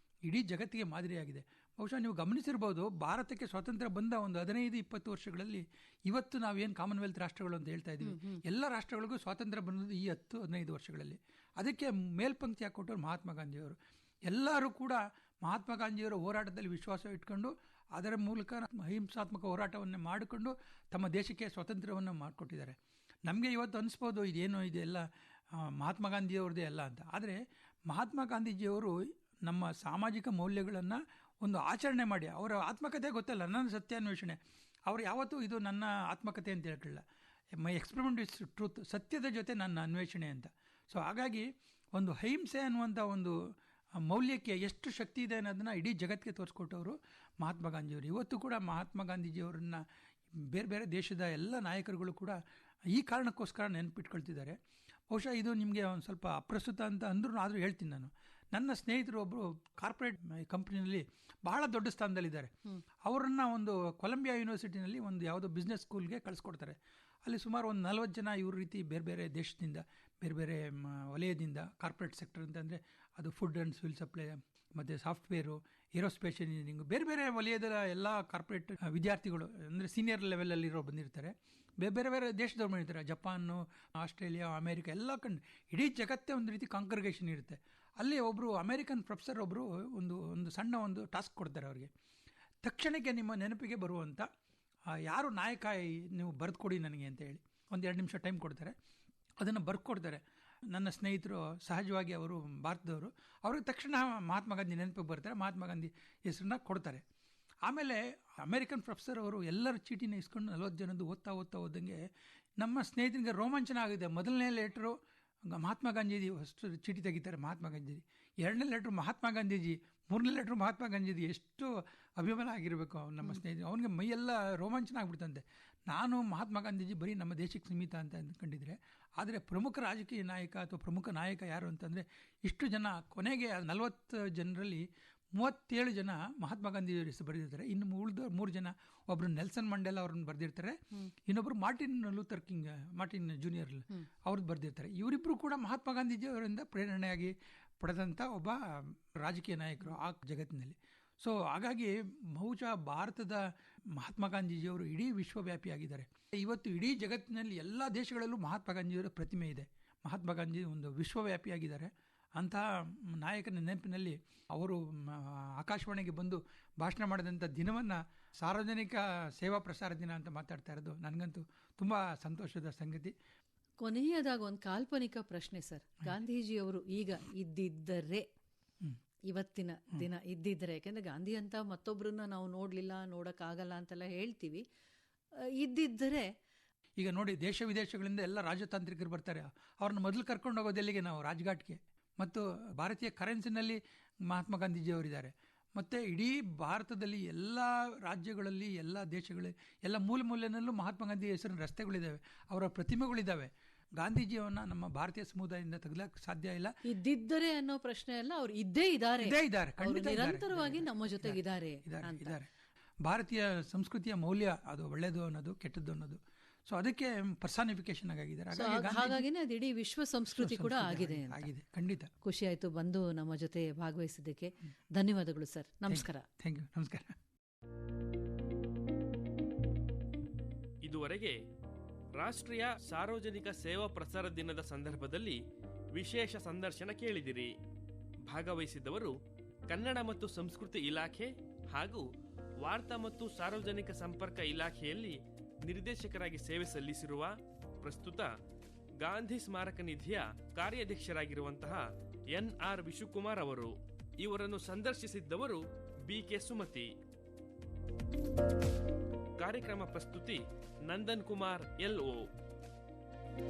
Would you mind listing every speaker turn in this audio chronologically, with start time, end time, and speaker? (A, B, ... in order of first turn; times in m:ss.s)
0:00.3-0:13.8 A
0:08.0-0:08.4 B
0:14.3-0:25.0 A
0:25.7-0:28.9 A
0:29.5-0:37.0 A
0:37.6-0:43.3 A
0:44.1-0:49.8 A
0:50.5-0:52.4 A
0:52.9-0:54.6 A
0:55.1-1:02.5 A
1:03.0-1:31.9 A
1:32.6-1:34.3 A
1:35.1-1:38.7 A
1:39.4-1:40.2 A
1:40.7-1:47.0 A
1:47.6-1:52.0 A
1:52.6-1:55.0 A
1:55.5-2:14.8 A
2:15.4-2:53.1 A
2:53.8-2:58.3 B
2:59.3-3:04.6 B
3:05.6-3:06.3 B
3:07.0-3:26.7 A
3:26.8-3:32.3 B
3:29.2-3:32.5 A
3:33.0-3:39.2 A
3:38.5-3:41.5 B
3:40.4-3:42.1 A
3:42.2-3:46.2 B
3:45.9-3:47.2 A
3:50.8-3:51.4 C
3:52.2-3:55.4 C
3:55.9-3:57.5 C
3:58.3-3:59.2 C
3:59.7-4:02.1 C
4:02.6-4:08.3 C
4:09.0-4:16.9 C
4:19.4-4:22.3 C